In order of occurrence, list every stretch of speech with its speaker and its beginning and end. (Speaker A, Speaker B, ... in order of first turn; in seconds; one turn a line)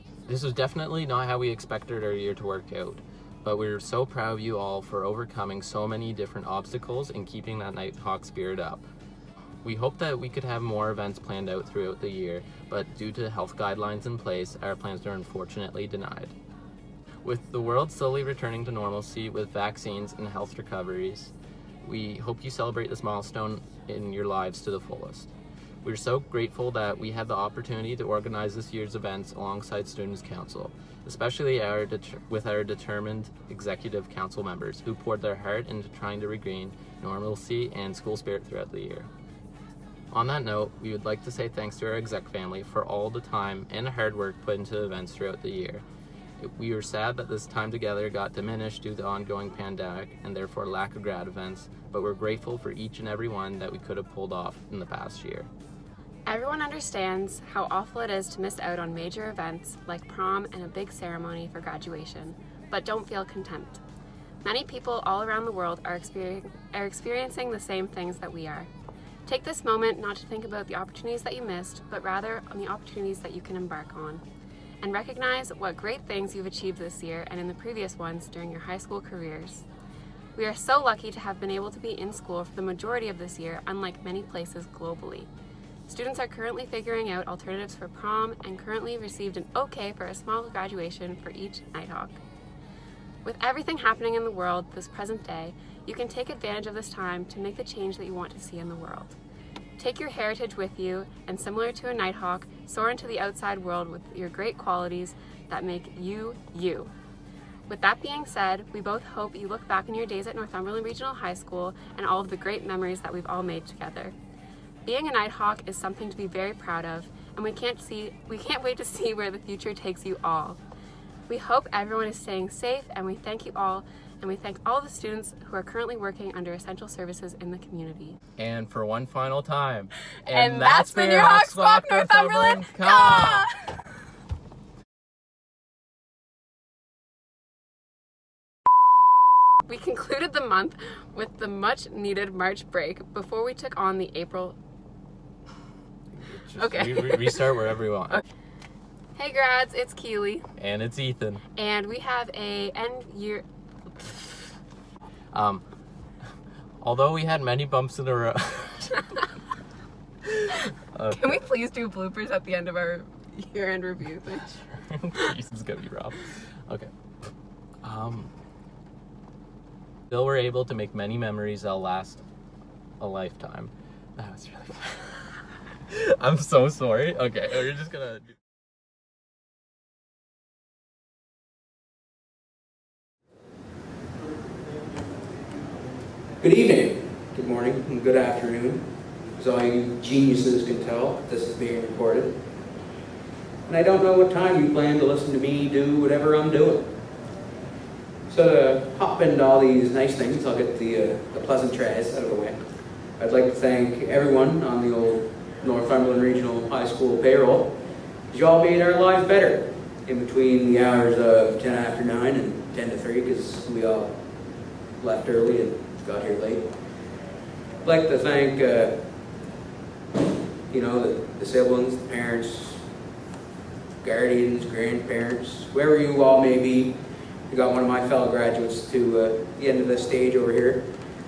Speaker A: 0.3-8.8
Speaker A: 9.6-16.3
Speaker A: 17.2-21.3
Speaker A: 21.8-25.3
Speaker A: 25.8-39.1
Speaker A: 40.1-45.8
Speaker A: 46.4-55.5
Speaker B: 56.3-63.8
Speaker B: 64.4-68.7
Speaker B: 69.3-74.2
Speaker B: 74.8-79.7
Speaker B: 80.4-85.3
Speaker B: 85.9-92.2
Speaker B: 93.2-99.2
Speaker B: 99.8-106.9
Speaker B: 107.7-114.2
Speaker B: 114.9-120.6
Speaker B: 121.3-128.2
Speaker A: 128.4-133.5
Speaker B: 130.3-133.5
Speaker B: 139.7-144.6
Speaker A: 146.1-148.2
Speaker B: 149.2-150.5
Speaker A: 150.6-151.4
Speaker B: 151.6-153.4
Speaker A: 155.3-155.6
Speaker A: 156.8-159.1
Speaker A: 160.9-161.3
Speaker B: 161.1-164.6
Speaker A: 164.8-166.9
Speaker A: 167.8-168.3
Speaker A: 170.1-172.2
Speaker A: 173.0-175.3
Speaker A: 175.9-178.3
Speaker C: 186.4-188.8
Speaker C: 189.4-192.3
Speaker C: 193.7-196.9
Speaker C: 198.3-202.6
Speaker C: 203.2-207.7
Speaker C: 208.3-214.1
Speaker C: 215.0-216.6
Speaker C: 217.8-218.9
Speaker C: 220.7-222.8
Speaker C: 224.0-226.9
Speaker C: 227.5-230.8